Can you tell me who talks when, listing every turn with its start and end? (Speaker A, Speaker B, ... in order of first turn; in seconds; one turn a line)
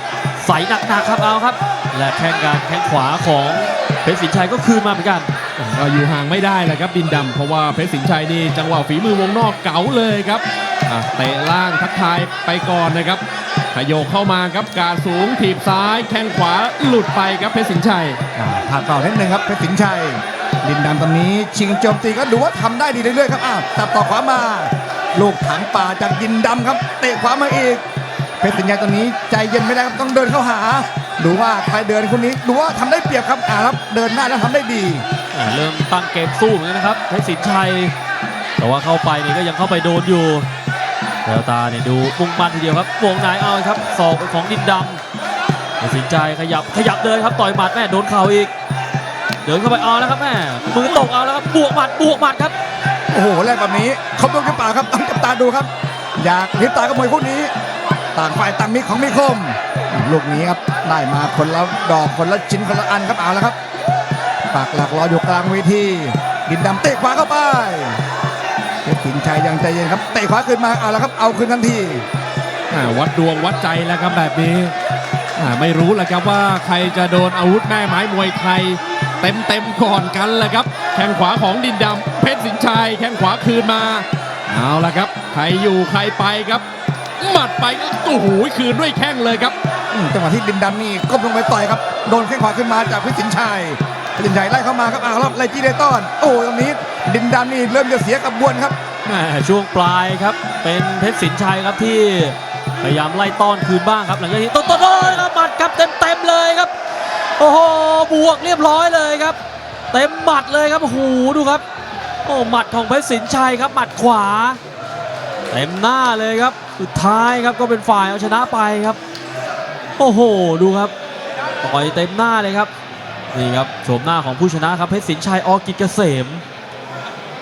Speaker A: 0.4-5.3
Speaker B: 5.6-18.2
Speaker C: 18.4-27.8
Speaker C: 28.4-35.0
Speaker A: 35.3-37.9
Speaker A: 38.6-40.5
Speaker A: 41.2-45.0
Speaker A: 45.8-48.5
Speaker A: 49.4-52.5
Speaker C: 53.1-57.5
Speaker C: 58.1-63.6
Speaker C: 64.5-68.0
Speaker C: 68.8-72.0
Speaker B: 72.7-74.8
Speaker B: 75.4-86.6
Speaker B: 87.2-89.5
Speaker C: 89.9-98.8
Speaker A: 99.0-106.7
Speaker A: 107.4-109.4
Speaker A: 109.9-111.6
Speaker A: 112.2-114.6
Speaker A: 115.5-119.0
Speaker A: 120.0-120.9
Speaker A: 121.6-122.7
Speaker A: 123.3-126.4